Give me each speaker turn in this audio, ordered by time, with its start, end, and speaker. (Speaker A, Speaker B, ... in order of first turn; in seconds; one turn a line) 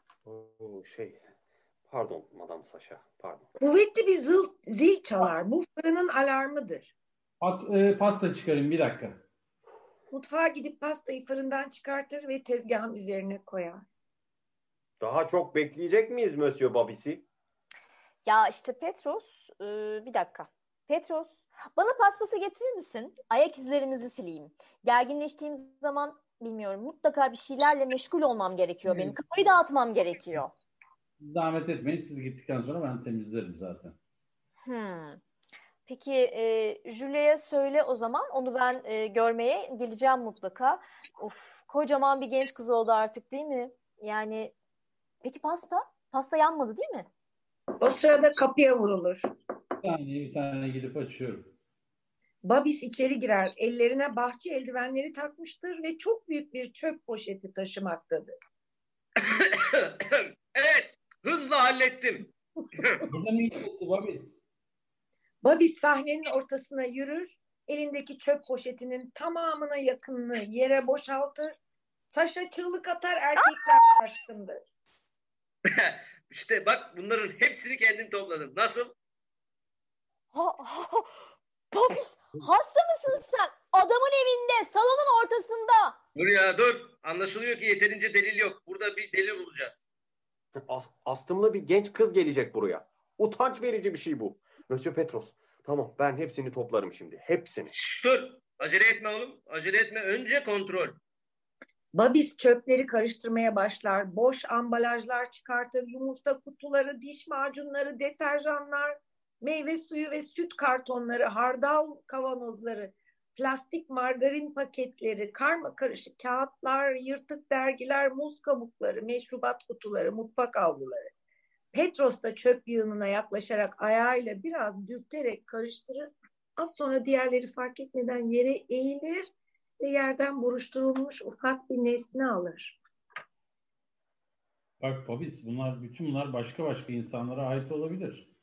Speaker A: 0.2-1.2
Speaker A: 1.9-3.5
Speaker B: 3.5-6.9
Speaker C: 7.4-9.2
Speaker B: 10.1-13.8
Speaker A: 15.0-17.2
Speaker D: 18.2-30.5
Speaker C: 28.9-29.1
Speaker C: 31.2-34.0
Speaker D: 34.6-35.2
Speaker D: 35.9-44.5
Speaker D: 45.2-47.1
Speaker B: 47.8-49.3
Speaker C: 49.8-51.5
Speaker B: 52.4-58.3
Speaker E: 59.2-63.0
Speaker C: 63.1-64.4
Speaker B: 65.4-71.5
Speaker B: 72.1-74.6
Speaker D: 73.5-73.9
Speaker E: 75.7-78.9
Speaker D: 80.3-81.2
Speaker D: 81.7-86.0
Speaker E: 86.2-89.8
Speaker A: 90.6-97.7
Speaker E: 97.7-101.0
Speaker B: 101.9-121.1
Speaker B: 121.7-132.8
Speaker C: 134.8-138.3